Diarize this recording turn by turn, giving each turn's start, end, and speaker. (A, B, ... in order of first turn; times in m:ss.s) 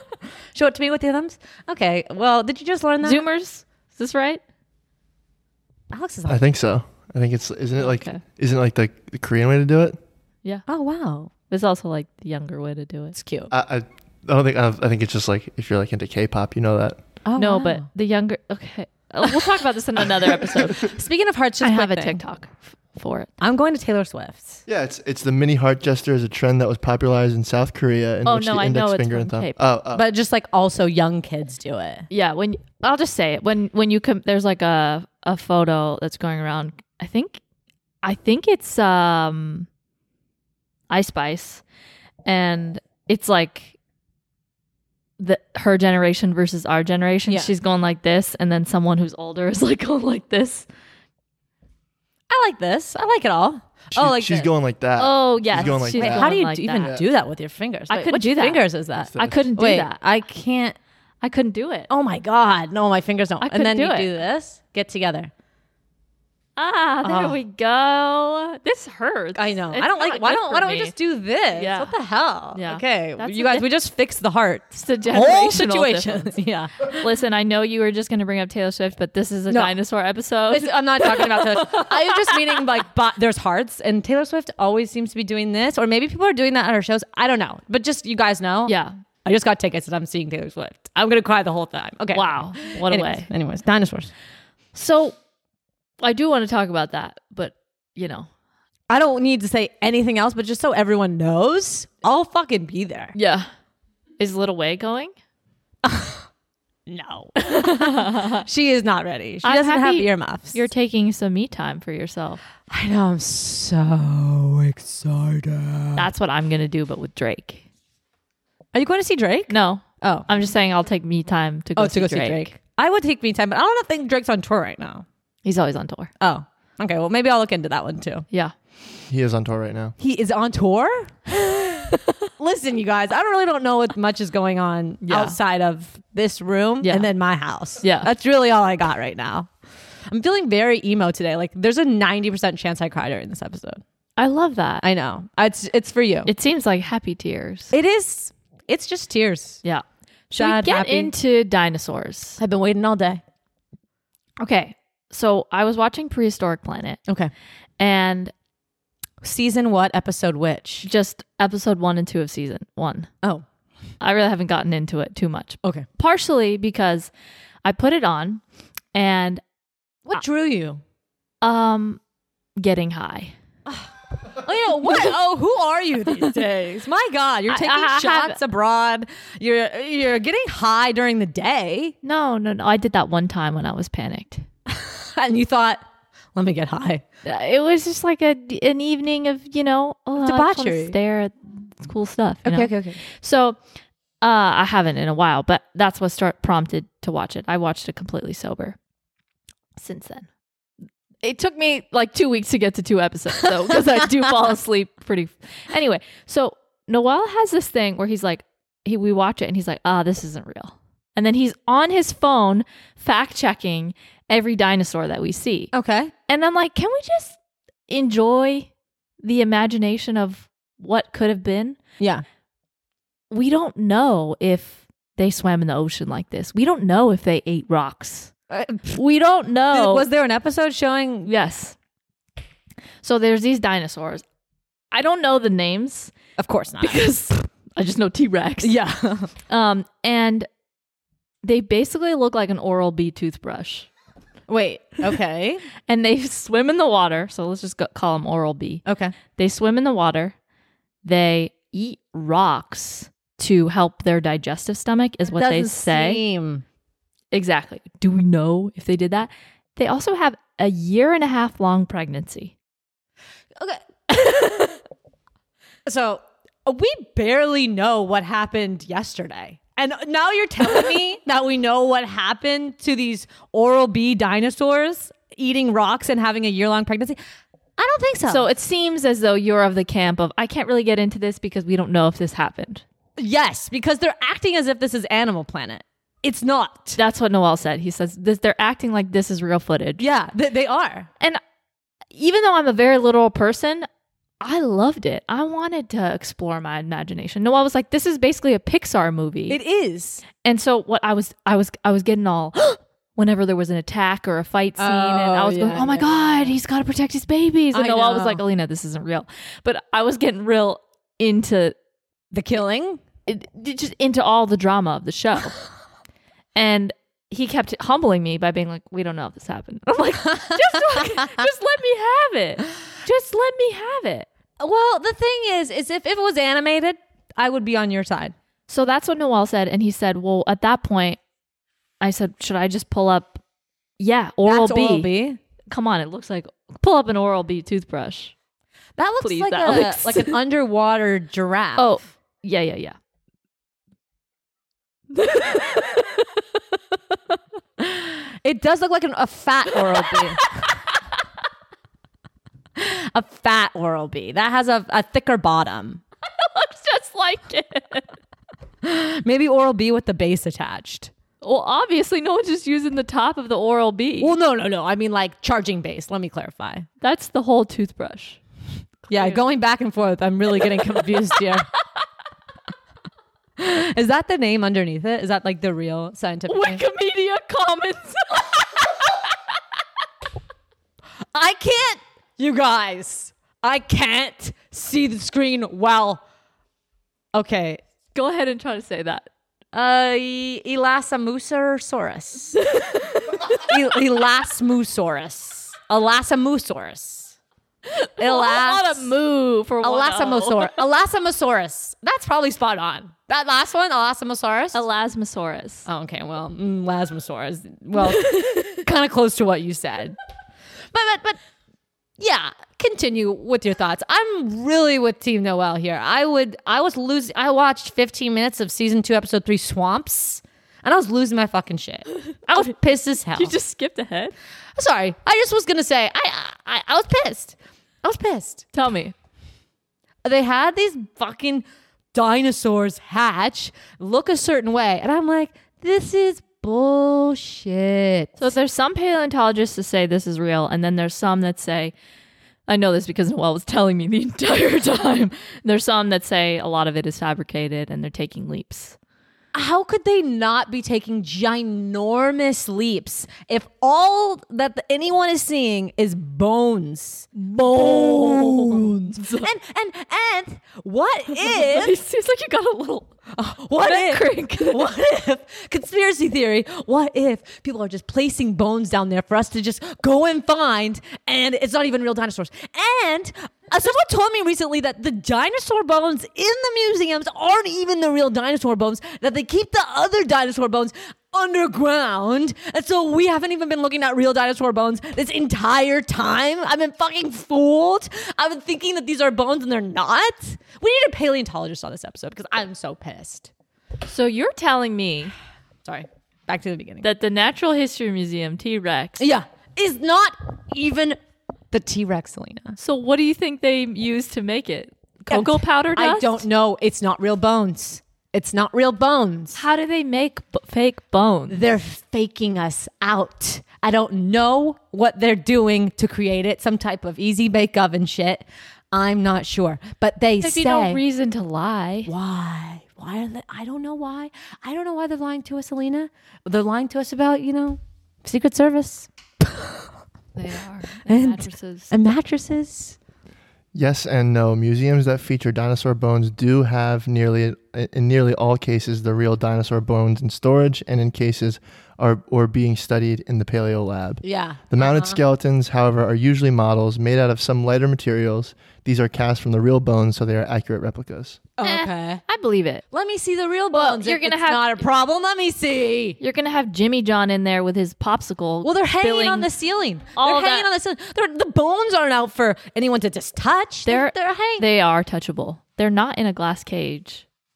0:00.5-0:03.2 A
0:03.0-0:04.4 B
0:05.9-0:06.4 A
0:06.3-0:10.0 C
0:07.8-0:08.2 B
0:10.7-0:11.3 A
0:11.5-0:13.2 B
0:13.2-0:13.5 A
0:13.5-0:17.0 C
0:17.2-0:17.9 A
0:17.4-0:21.0 B
0:20.7-0:22.2 A
0:21.6-0:23.3 B
0:23.4-0:24.6 A
0:24.7-0:30.1 C
0:28.2-0:29.6 B
0:30.0-0:32.1 A
0:32.1-0:37.4 B
0:38.0-0:39.7 B
0:40.9-0:41.6 B
0:42.2-0:43.8 B
0:45.2-0:50.7 B
0:52.3-0:54.5 A
0:53.9-0:57.0 C
0:55.0-0:56.9 B
0:55.6-1:00.8 A
0:57.9-0:58.6 B
0:59.1-0:59.5 C
0:59.2-1:00.0 B
1:01.2-1:01.9 B
1:01.9-1:05.3 A
1:03.4-1:04.1 B
1:06.6-1:10.9 B
1:07.0-1:07.4 A
1:09.4-1:17.1 A
1:11.6-1:11.9 B
1:12.5-1:13.7 B
1:14.7-1:16.4 B
1:16.9-1:22.6 B
1:20.5-1:28.7 A
1:28.7-1:28.9 B
1:29.2-1:34.1 A
1:32.1-1:33.3 B
1:34.8-1:35.2 B
1:36.0-1:38.3 B
1:38.9-1:43.2 A
1:43.2-1:43.5 B
1:44.2-1:45.1 B
1:45.8-1:46.2 A
1:46.9-1:50.6 A
1:47.4-1:48.4 B
1:49.4-1:52.4 B
1:52.7-1:56.1 A
1:56.0-1:57.6 B
1:58.7-2:00.3 A
1:59.5-2:02.5 B
2:01.8-2:05.0 A
2:05.4-2:06.1 B
2:06.2-2:08.2 A
2:09.1-2:09.9 C
2:10.0-2:19.5 A
2:15.0-2:15.4 B
2:16.8-2:17.1 B
2:17.8-2:18.1 B
2:20.1-2:23.8 A
2:24.2-2:24.9 B
2:24.8-2:26.3 A
2:26.3-2:27.7 B
2:27.7-2:29.6 A
2:30.3-2:31.1 A
2:30.4-2:32.4 B
2:32.4-2:33.2 A
2:34.4-2:37.0 B
2:37.8-2:38.3 B
2:39.2-2:40.9 A
2:40.8-2:43.1 B
2:44.0-2:47.1 B
2:47.6-2:48.4 B
2:48.9-2:49.4 B
2:50.1-2:50.8 A
2:51.4-2:52.0 B
2:52.6-2:53.3 B
2:53.7-3:02.0 A
2:54.8-2:55.2 B
2:57.5-2:58.4 B
3:02.0-3:04.5 B
3:04.7-3:05.8 A
3:06.4-3:07.0 A
3:07.2-3:13.6 B
3:10.2-3:11.0 A
3:12.4-3:13.0 A
3:14.2-3:18.8 B
3:19.8-3:20.3 B
3:21.2-3:35.7 B
3:35.7-3:36.1 A
3:36.3-3:37.4 B
3:37.9-3:38.7 B
3:39.2-3:41.8 B
3:43.3-3:48.3 B
3:48.5-3:49.0 A
3:48.9-3:50.1 B
3:49.7-3:51.3 A
3:51.3-3:51.8 B
3:53.0-3:54.2 B
3:54.9-3:56.1 B
3:56.4-3:57.1 A
3:56.8-3:58.8 B
3:58.6-3:59.3 A
3:59.5-4:00.5 B
4:01.4-4:03.9 B
4:04.5-4:05.7 A
4:05.9-4:08.8 B
4:08.9-4:09.1 A
4:09.4-4:10.4 B
4:11.0-4:16.2 B
4:15.3-4:16.6 A
4:17.3-4:22.5 B
4:24.2-4:24.7 B
4:25.9-4:37.2 A
4:37.8-4:38.5 A
4:38.3-4:42.8 B
4:43.2-4:47.0 A
4:47.0-4:50.0 B
4:50.0-4:51.1 A
4:52.1-4:53.9 B
4:54.4-4:59.6 B
4:59.5-5:00.2 A
5:00.4-5:11.8 B
5:04.8-5:06.5 A
5:07.7-5:08.4 A
5:12.3-5:13.0 A
5:13.3-5:15.6 B
5:16.6-5:24.3 B
5:24.6-5:28.3 A
5:28.7-5:31.2 B
5:32.0-5:33.4 B
5:34.0-5:35.1 B
5:34.5-5:35.4 A
5:35.7-5:38.3 B
5:39.0-5:41.9 A
5:39.2-5:40.4 B
5:41.8-5:43.0 B
5:45.1-5:46.3 B
5:47.8-5:50.6 A
5:52.8-5:56.0 A
5:56.4-5:58.2 B
5:58.8-6:01.1 A
6:01.4-6:04.4 B
6:04.2-6:06.9 A
6:07.0-6:08.4 B
6:09.1-6:11.7 A
6:09.1-6:09.4 B
6:13.6-6:16.8 A
6:16.5-6:18.7 B
6:21.3-6:26.2 A
6:27.3-6:27.8 A
6:28.1-6:29.3 B
6:29.7-6:32.7 A
6:32.6-6:33.6 B
6:33.5-6:37.4 A
6:37.9-6:40.8 B
6:38.2-6:39.1 A
6:39.8-6:44.8 A
6:44.7-6:45.9 B
6:45.9-6:50.2 A
6:48.1-6:48.8 B
6:50.9-6:51.4 A
6:52.2-7:03.6 A
7:03.4-7:04.3 B
7:04.8-7:08.7 A
7:08.7-7:09.1 B
7:10.2-7:18.5 A
7:18.4-7:21.9 B
7:22.7-7:29.0 B
7:29.5-7:42.0 A
7:37.4-7:39.5 B
7:41.4-7:43.1 B
7:43.3-8:13.5 A
7:43.8-7:44.9 B
8:14.0-8:15.3 B
8:15.8-8:17.1 A
8:17.0-8:19.2 B
8:19.2-8:21.2 A
8:21.7-8:22.8 A
8:22.8-8:26.4 B
8:25.3-8:29.6 A
8:29.6-8:31.6 B
8:31.5-8:41.0 A
8:40.4-8:42.1 B
8:42.1-8:49.8 A
8:50.4-8:51.9 B
8:51.1-8:53.0 A
8:53.7-9:11.4 C
9:04.2-9:05.2 A
9:11.6-9:12.2 A
9:11.6-9:12.8 B
9:12.9-9:16.2 A
9:13.7-9:14.8 B
9:16.2-9:19.5 B
9:18.6-9:24.7 A
9:20.2-9:20.7 B
9:23.9-9:27.2 B